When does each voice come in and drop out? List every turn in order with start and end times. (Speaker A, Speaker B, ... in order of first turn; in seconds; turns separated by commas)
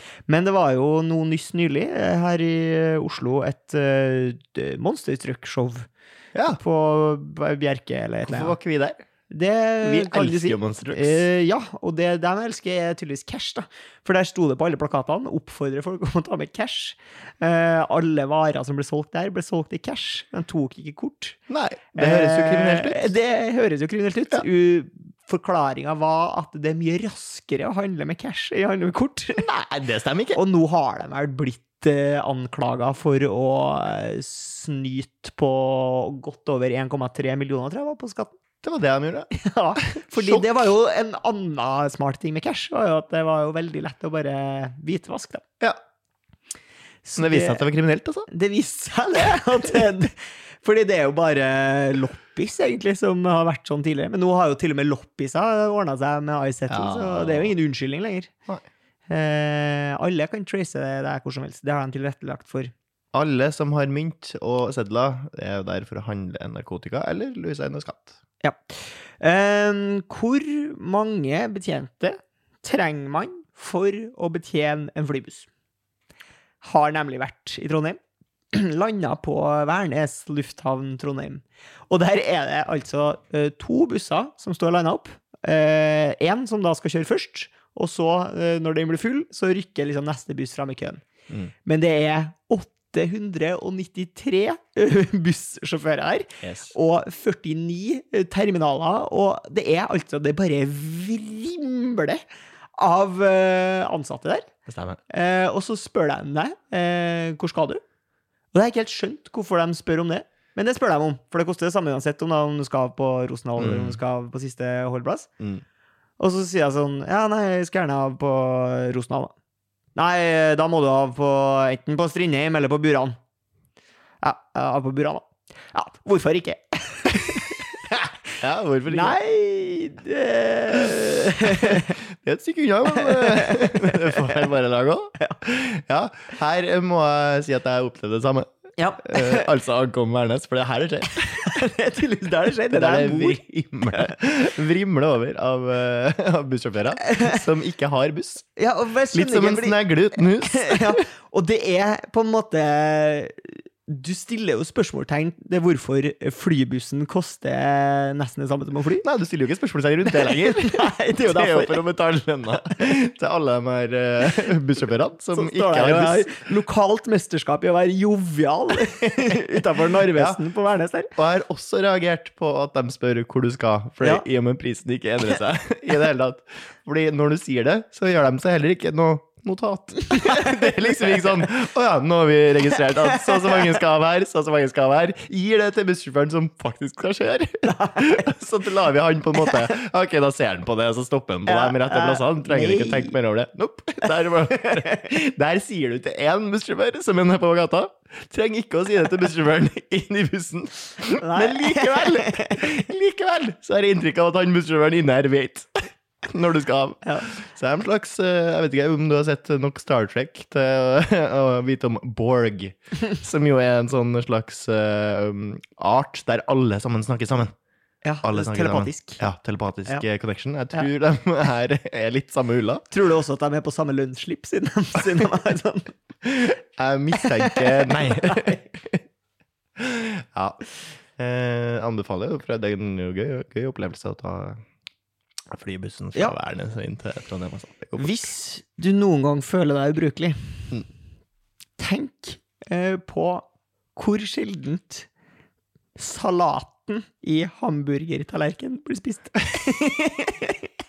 Speaker A: 0.3-5.9, Speaker B: 6.3-6.6, Speaker A: 6.6-8.6, Speaker B: 8.2-9.1, Speaker A: 9.3-21.4, Speaker B: 9.8-11.2, Speaker B: 21.5-23.1, Speaker A: 22.0-29.6, Speaker B: 29.4-30.4, Speaker A: 30.3-38.4, Speaker B: 38.6-39.3, Speaker A: 39.3-45.5, Speaker B: 39.8-40.5, Speaker A: 47.0-47.7, Speaker B: 47.2-48.3, Speaker A: 48.3-58.3, Speaker B: 56.7-57.5, Speaker A: 59.1-62.7, Speaker B: 63.1-68.2, Speaker A: 68.4-75.5, Speaker A: 76.6-78.0, Speaker A: 78.5-91.0, Speaker A: 91.7-102.2, Speaker B: 96.4-96.7, Speaker A: 102.8-104.5, Speaker B: 104.7-105.0, Speaker A: 105.1-107.8, Speaker A: 108.5-115.3, Speaker B: 113.6-114.0, Speaker A: 116.2-119.3, Speaker A: 120.0-123.2, Speaker A: 124.2-128.2, Speaker B: 128.4-129.2, Speaker A: 128.9-132.0, Speaker B: 131.6-141.6, Speaker A: 132.8-134.4, Speaker A: 138.8-139.5, Speaker A: 141.3-144.2, Speaker B: 142.7-148.5, Speaker A: 147.0-147.4, Speaker A: 148.6-159.1, Speaker B: 149.1-151.0, Speaker B: 159.0-166.4, Speaker A: 160.1-161.8, Speaker A: 165.3-171.2, Speaker B: 170.1-170.4, Speaker B: 171.2-217.5, Speaker A: 174.0-174.3, Speaker A: 180.1-181.4, Speaker A: 182.9-183.8, Speaker A: 187.7-188.3, Speaker A: 189.3-189.7, Speaker A: 191.5-193.1, Speaker A: 201.2-202.8, Speaker A: 207.1-207.3, Speaker A: 218.0-219.3, Speaker B: 218.2-222.9, Speaker A: 222.9-225.9, Speaker B: 226.2-229.0, Speaker A: 227.2-228.6, Speaker B: 229.8-234.6, Speaker B: 235.5-238.3, Speaker A: 238.0-240.7, Speaker A: 241.8-245.1, Speaker A: 246.0-250.7